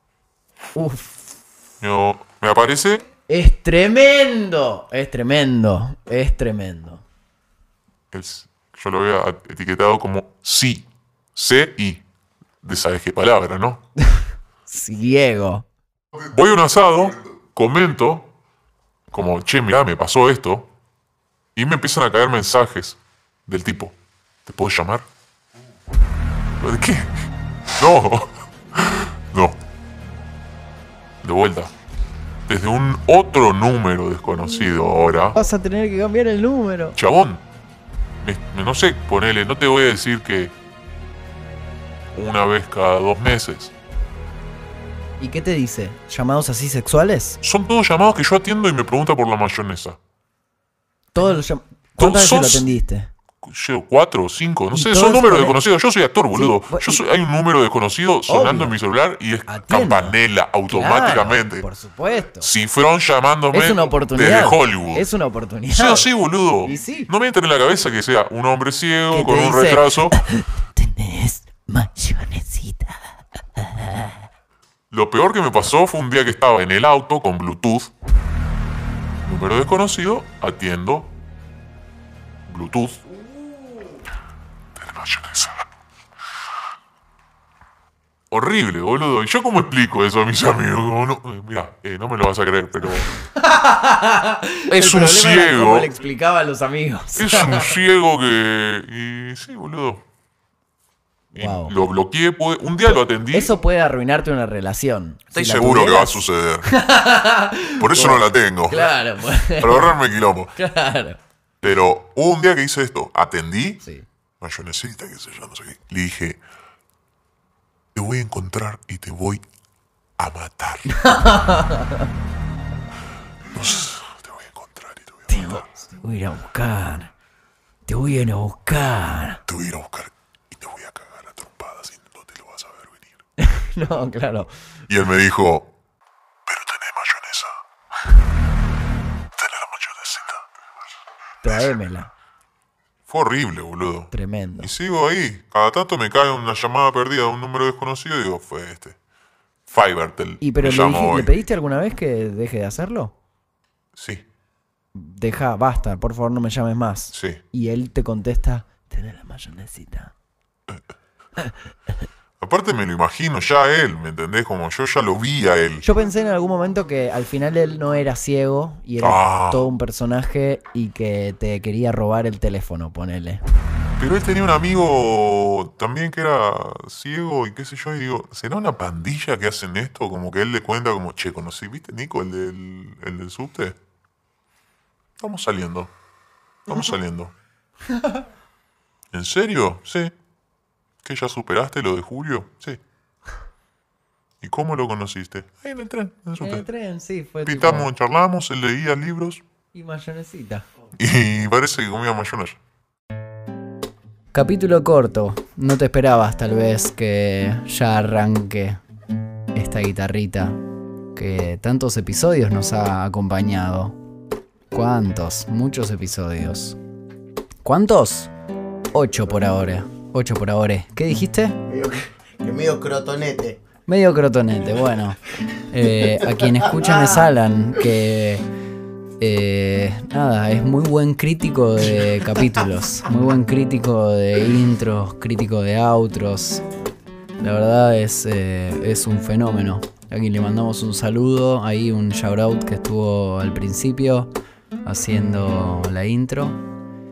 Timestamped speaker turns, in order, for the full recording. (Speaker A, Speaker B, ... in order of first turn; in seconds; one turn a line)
Speaker A: 0.8-1.2
Speaker B: 1.8-3.1
Speaker A: 3.3-7.0
Speaker B: 8.1-12.0
Speaker B: 12.6-13.8
Speaker A: 14.1-15.7
Speaker B: 16.2-18.3
Speaker B: 19.1-20.7
Speaker B: 21.6-25.1
Speaker B: 26.6-27.1
Speaker B: 27.8-29.6
Speaker B: 31.2-31.7
Speaker B: 32.5-35.4
Speaker A: 35.3-37.0
Speaker B: 37.0-37.4
Speaker B: 38.2-40.5
Speaker B: 42.1-43.7
Speaker A: 45.2-47.4
Speaker B: 47.4-50.0
Speaker A: 51.1-53.1
Speaker B: 52.0-52.7
Speaker B: 53.4-61.7
Speaker A: 54.7-55.6
Speaker A: 56.3-57.0
Speaker A: 58.3-58.8
Speaker A: 59.5-62.5
Speaker B: 62.4-65.1
Speaker A: 63.5-66.1
Speaker B: 65.7-70.2
Speaker A: 66.6-67.1
Speaker A: 69.1-73.0
Speaker A: 73.6-74.2
Speaker B: 74.9-77.9
Speaker B: 79.2-81.1
Speaker B: 82.5-83.0
Speaker B: 84.8-85.6
Speaker B: 88.3-93.1
Speaker A: 93.2-97.8
Speaker B: 94.7-95.9
Speaker B: 97.2-100.0
Speaker B: 101.3-103.6
Speaker A: 101.4-101.8
Speaker A: 102.9-110.0
Speaker B: 105.3-106.7
Speaker B: 107.8-110.6
Speaker A: 110.6-111.2
Speaker B: 111.6-113.8
Speaker A: 113.8-114.1
Speaker B: 114.4-116.4
Speaker B: 118.0-119.4
Speaker B: 120.2-121.0
Speaker A: 120.9-122.0
Speaker B: 123.5-125.7
Speaker A: 125.3-127.1
Speaker A: 127.9-129.4
Speaker B: 129.5-133.2
Speaker A: 133.4-134.7
Speaker B: 134.9-135.7
Speaker B: 136.5-137.6
Speaker B: 139.4-140.4
Speaker A: 141.4-142.1
Speaker B: 143.1-149.0
Speaker A: 144.1-144.7
Speaker B: 149.7-151.3
Speaker A: 150.4-153.2
Speaker B: 154.0-154.2
Speaker A: 154.9-160.1
Speaker B: 157.1-157.4
Speaker B: 162.4-165.8
Speaker A: 165.8-173.4
Speaker B: 169.0-169.7
Speaker B: 174.0-183.8
Speaker B: 185.2-185.9
Speaker B: 186.7-187.3
Speaker B: 189.1-190.1
Speaker B: 191.0-192.8
Speaker B: 194.4-196.7
Speaker A: 196.4-197.9
Speaker B: 197.4-199.4
Speaker A: 199.7-200.7
Speaker B: 201.0-202.6
Speaker A: 204.3-208.8
Speaker A: 209.5-210.6
Speaker A: 211.2-214.0
Speaker A: 214.7-216.8
Speaker A: 217.6-218.3
Speaker A: 218.9-221.6
Speaker C: 221.7-223.6
Speaker A: 223.9-228.4
Speaker A: 229.2-236.6
Speaker A: 237.4-244.3
Speaker A: 244.8-246.6